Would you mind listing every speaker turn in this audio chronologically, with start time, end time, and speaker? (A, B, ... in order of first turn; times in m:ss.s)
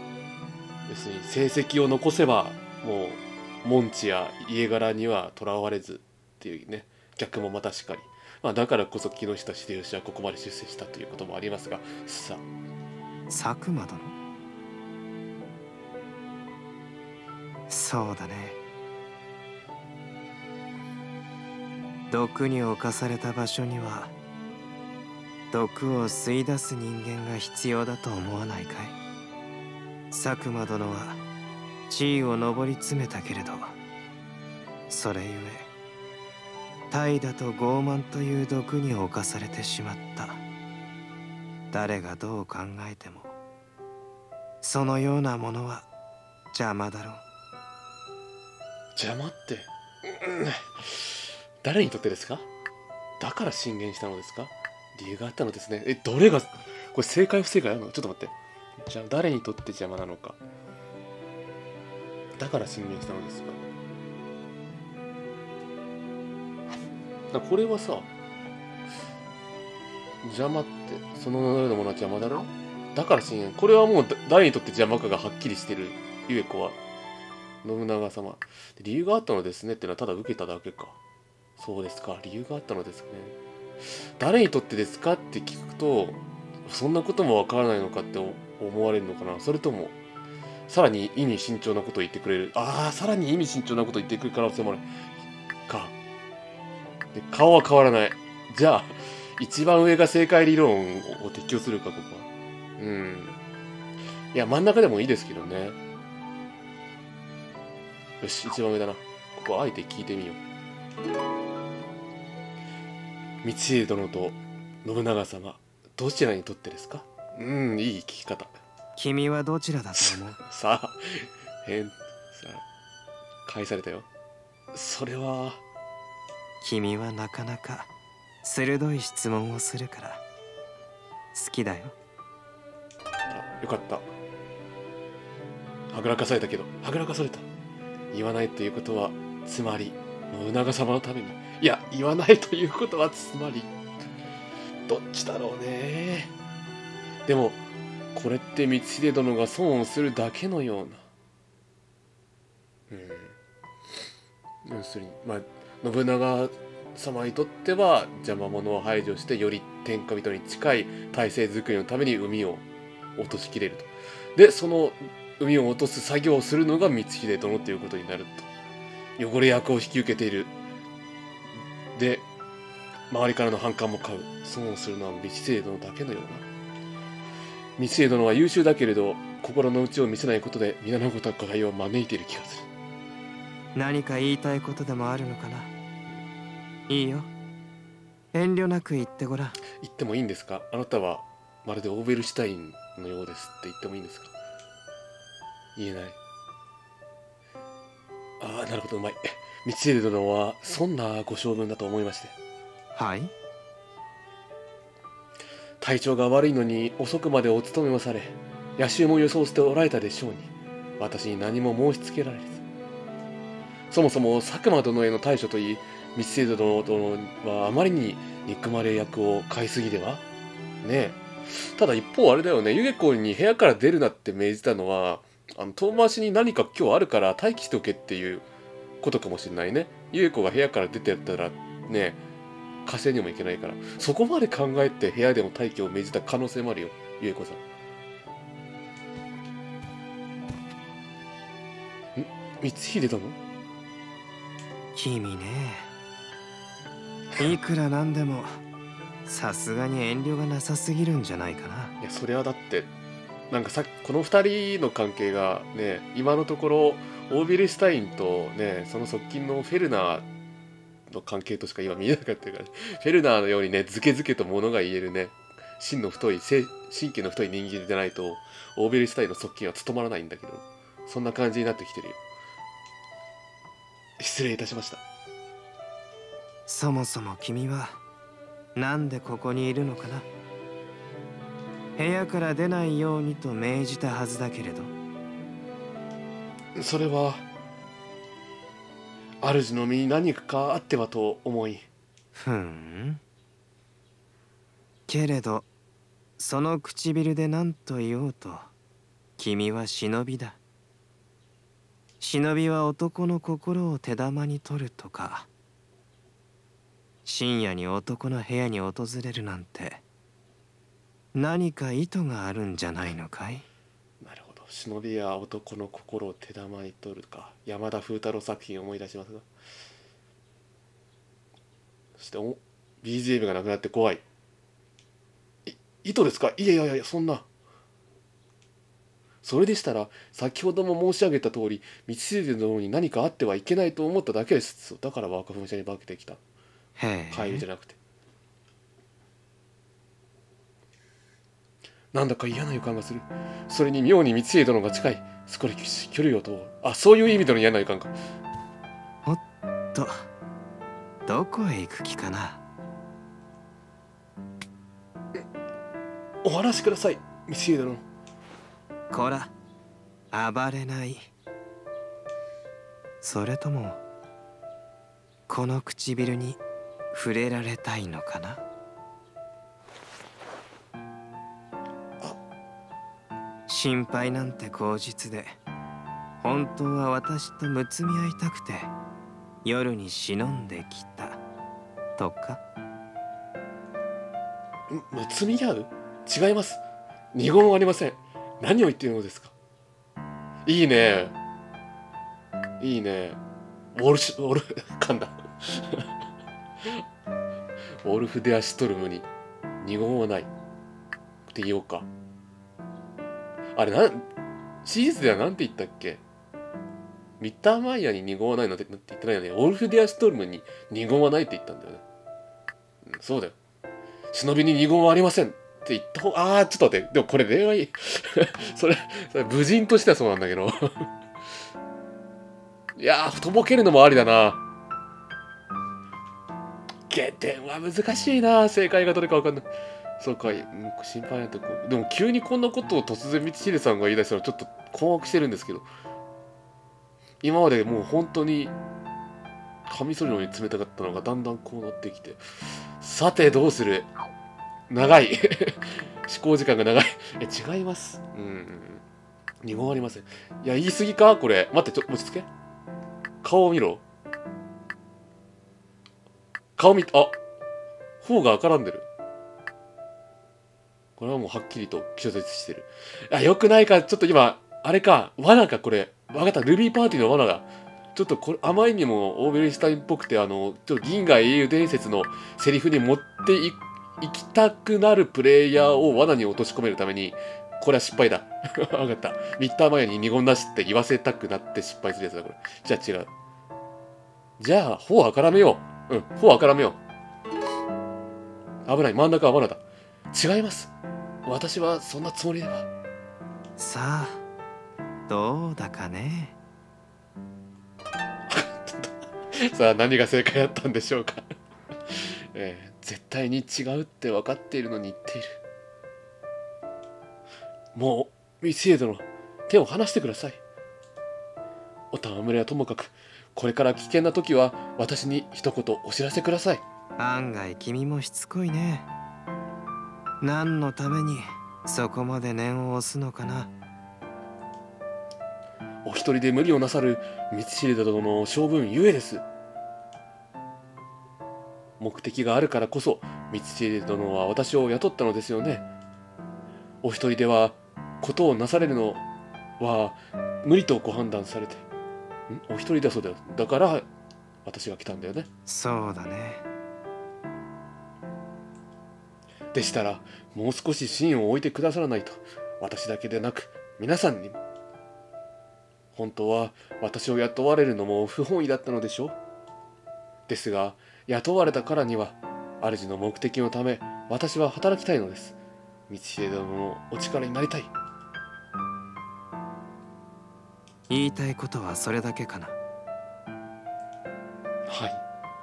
0:00.9-0:12.4 A
0:13.3-0:14.1 B
0:17.7-0:18.6 B
0:22.1-0:24.1 B
0:25.5-0:29.0 B
0:30.1-0:31.2 B
0:31.9-0:33.8 B
0:34.9-0:35.7 B
0:36.9-0:40.4 B
0:41.7-0:43.3 B
0:44.6-0:45.8 B
0:46.5-0:47.2 B
0:49.0-0:52.4 A
0:53.2-1:00.4 A
1:02.4-1:03.6 A
1:07.3-1:08.1 A
1:10.2-1:16.8 A
1:17.6-1:21.0 A
1:21.6-1:23.3 A
1:24.2-1:30.0 A
1:30.7-1:34.8 A
1:35.7-1:35.9 A
1:37.1-1:42.3 A
1:42.8-1:43.4 A
1:44.3-1:45.8 A
1:48.2-1:50.4 A
1:53.4-1:58.6 A
1:59.0-2:00.4 B
2:00.0-2:02.6 A
2:03.4-2:04.1 A
2:04.7-2:05.6 A
2:06.6-2:07.9 B
2:08.4-2:10.2 B
2:11.3-2:11.9 B
2:13.3-2:14.0 A
2:15.9-2:17.4 A
2:18.1-2:23.7 A
2:24.9-2:26.3 A
2:27.2-2:27.6 A
2:28.1-2:31.0 A
2:32.9-2:33.3 A
2:34.6-2:42.6 A
2:43.2-2:48.5 A
2:49.2-2:50.5 A
2:51.9-2:52.2 A
2:53.1-2:56.5 A
2:57.8-3:02.7 A
3:03.7-3:05.7 B
3:06.9-3:07.3 B
3:08.3-3:09.6 B
3:09.8-3:14.3 A
3:15.8-3:16.2 A
3:18.4-3:22.3 A
3:22.9-3:23.3 B
3:25.8-3:32.6 A
3:33.9-3:40.2 A
3:40.8-3:48.4 A
3:49.0-3:52.2 A
3:52.8-3:57.6 A
4:02.2-4:03.4 A
4:04.9-4:05.9 B
4:07.4-4:08.6 B
4:09.2-4:11.9 B
4:12.0-4:12.9 A
4:13.5-4:20.2 A
4:21.1-4:32.2 A
4:34.2-4:35.0 A
4:36.7-4:38.0 B
4:38.7-4:40.3 B
4:42.0-4:44.9 B
4:46.8-4:47.4 A
4:49.4-4:51.8 A
4:52.3-4:53.2 B
4:55.1-4:55.7 B
4:56.4-4:58.7 B
4:59.4-5:00.6 B
5:02.2-5:05.5 B
5:07.2-5:10.0 B
5:11.3-5:13.6 B
5:14.2-5:19.4 A
5:22.2-5:24.2 A
5:25.6-5:27.4 A
5:29.4-5:36.4 A
5:37.0-5:37.6 B
5:37.3-5:38.0 A
5:42.1-5:48.1 A
5:49.9-5:50.3 B
5:51.2-5:52.6 B
5:56.4-5:58.0 A
5:59.1-5:59.5 B
6:00.3-6:01.3 B
6:03.2-6:04.0 B
6:05.5-6:06.6 B
6:07.1-6:08.6 B
6:13.7-6:15.6 B
6:16.4-6:18.9 B
6:19.6-6:21.4 B
6:22.2-6:22.6 B
6:24.9-6:26.8 A
6:27.3-6:29.5 A
6:30.6-6:31.3 A
6:32.8-6:33.4 A
6:33.9-6:36.1 A
6:38.0-6:39.3 A
6:39.8-6:40.5 A
6:41.5-6:42.1 A
6:43.8-6:44.2 A
6:44.8-6:46.2 A
6:47.4-6:52.0 A
6:53.0-6:53.6 A
6:54.3-7:01.0 A
7:03.0-7:04.6 A
7:07.1-7:09.7 A
7:10.2-7:15.8 A
7:17.4-7:18.7 A
7:19.9-7:24.1 A
7:24.9-7:29.0 A
7:29.6-7:32.5 A
7:33.4-7:34.0 A
7:36.8-7:37.4 A
7:38.2-7:39.1 A
7:41.2-8:03.3 A
8:04.6-8:07.0 A
8:08.8-8:10.9 A
8:11.4-8:12.9 A
8:13.8-8:14.4 B
8:15.3-8:16.5 B
8:18.5-8:21.4 A
8:22.1-8:25.6 A
8:27.9-8:30.6 A
8:32.1-8:36.8 A
8:37.2-8:39.1 B
8:40.4-8:43.7 B
8:46.0-8:49.4 A
8:52.0-8:55.9 A
8:57.0-8:59.2 A
8:59.8-9:01.8 A
9:02.5-9:04.1 A
9:04.6-9:05.5 A
9:05.7-9:06.6 B
9:09.7-9:14.6 A
9:16.1-9:19.4 A
9:20.5-9:25.6 A
9:26.1-9:27.9 A
9:31.1-9:32.7 B
9:34.9-9:35.2 A